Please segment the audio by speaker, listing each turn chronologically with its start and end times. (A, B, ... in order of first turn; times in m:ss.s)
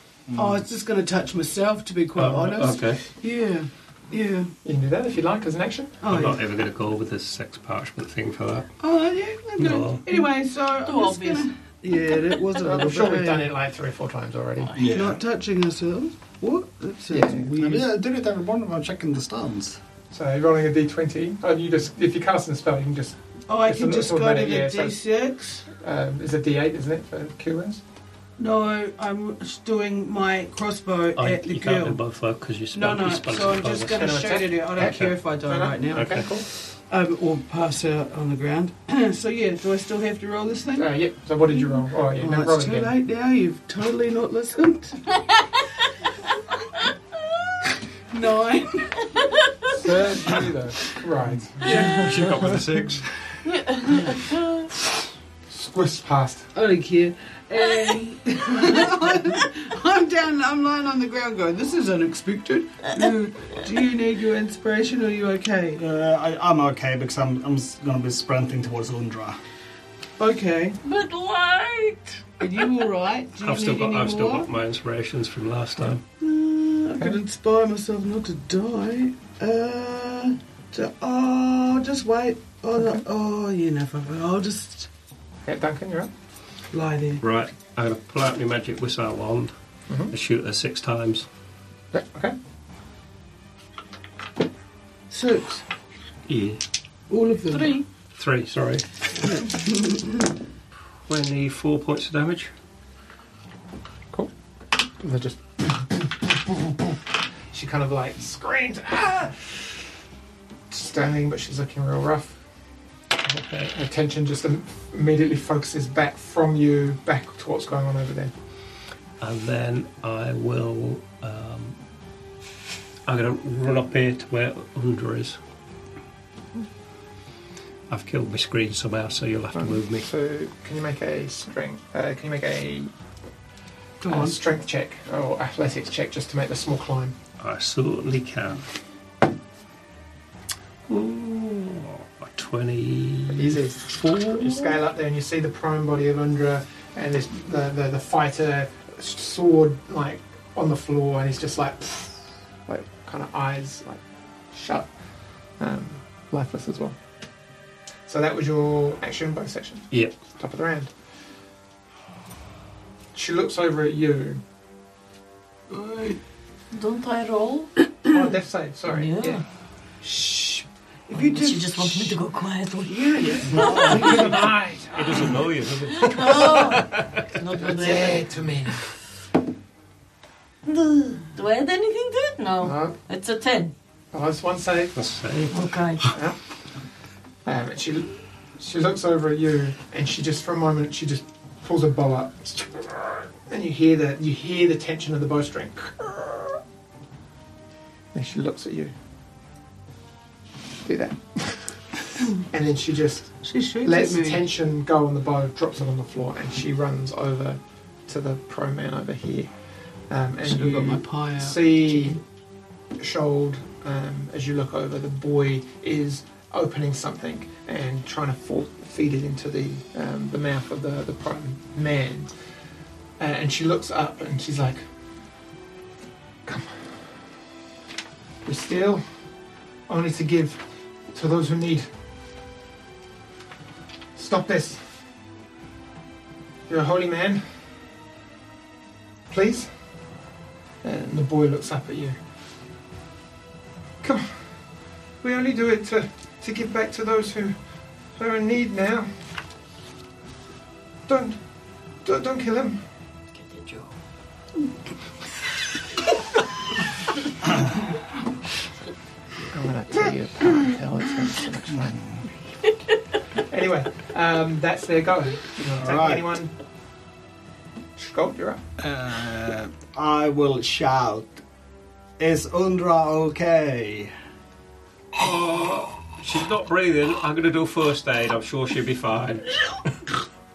0:00.3-0:00.6 A
0:00.4-0:04.5 B
0:02.2-0:03.0 C
0:04.6-0:06.0 D
0:06.0-0:06.4 B
0:06.0-0:08.7 C
0:08.8-0:13.5 B
0:09.6-0:10.0 C
0:10.8-0:11.5 E
0:12.6-0:14.8 D
0:14.8-0:15.2 A
0:14.8-0:17.9 B
0:17.1-0:17.5 D
0:17.6-0:19.8 A
0:20.1-0:25.0 D
0:23.5-0:25.7 B
0:25.7-0:27.8 D
0:28.4-0:32.0 B
0:31.2-0:34.1 C
0:32.7-0:41.0 B
0:33.9-0:36.4 D
0:34.8-0:35.2 C
0:35.9-0:36.3 C
0:40.8-0:42.9 D
0:41.5-0:45.2 B
0:48.1-0:49.1 B
0:49.7-0:52.4 D
0:51.6-0:52.3 B
0:51.6-0:53.0 C
0:52.0-0:52.8 A
0:53.5-0:54.6 E
0:53.9-0:54.1 B
0:55.5-0:56.5 D
0:56.5-1:05.8 B
1:05.8-1:09.4 A
1:10.2-1:10.8 B
1:10.8-1:12.2 E
1:12.4-1:14.5 B
1:13.4-1:16.0 C
1:16.2-1:24.9 B
1:25.4-1:26.1 D
1:26.7-1:27.2 B
1:27.2-1:29.5 C
1:30.1-1:31.2 C
1:31.9-1:32.4 D
1:35.1-1:35.6 B
1:36.3-1:36.6 C
1:37.1-1:37.8 B
1:37.5-1:37.8 E
1:38.1-1:38.8 C
1:39.4-1:40.0 B
1:41.1-1:42.5 C
1:44.1-1:47.0 D
1:47.5-1:49.6 D
1:50.7-1:52.4 D
1:53.2-1:58.3 D
1:59.2-2:01.8 C
2:03.0-2:05.4 C
2:07.9-2:10.1 C
2:09.5-2:12.9 D
2:14.0-2:14.4 B
2:14.0-2:17.1 D
2:17.4-2:18.6 C
2:20.9-2:24.7 C
2:23.3-2:32.1 D
2:32.7-2:34.0 D
2:34.5-2:34.9 D
2:35.6-2:37.0 D
2:38.1-2:40.9 D
2:43.1-2:44.4 D
2:45.7-2:46.2 B
2:46.7-2:47.7 E
2:48.1-2:49.4 D
2:48.9-2:49.4 E
2:50.0-2:52.2 B
2:51.1-2:54.1 E
2:52.8-2:54.4 B
2:53.5-2:55.5 D
2:53.7-2:57.2 C
2:56.0-2:58.2 E
2:57.6-2:58.8 D
3:00.6-3:03.7 E
3:02.6-3:02.9 D
3:04.1-3:05.0 D
3:04.9-3:05.5 C
3:05.5-3:06.1 E
3:06.1-3:06.4 D
3:07.4-3:16.6 D
3:18.1-3:18.9 D
3:20.8-3:29.5 D
3:23.4-3:24.4 B
3:30.1-3:32.2 D
3:30.4-3:32.2 B
3:33.0-3:42.3 D
3:43.2-3:44.8 D
3:46.4-3:47.0 D
3:48.4-3:49.0 D
3:49.9-3:51.9 D
3:54.1-3:54.8 D
3:56.7-3:57.4 D
3:59.3-3:59.7 D
4:00.8-4:02.2 D
4:04.0-4:04.3 D
4:05.2-4:07.6 D
4:08.2-4:09.1 D
4:11.1-4:11.4 D
4:12.0-4:12.8 D
4:13.4-4:13.9 E
4:19.5-4:22.0 D
4:23.4-4:26.5 D
4:25.8-4:26.3 A
4:28.0-4:28.6 D
4:28.8-4:31.4 A
4:32.2-4:34.1 A
4:35.1-4:39.8 C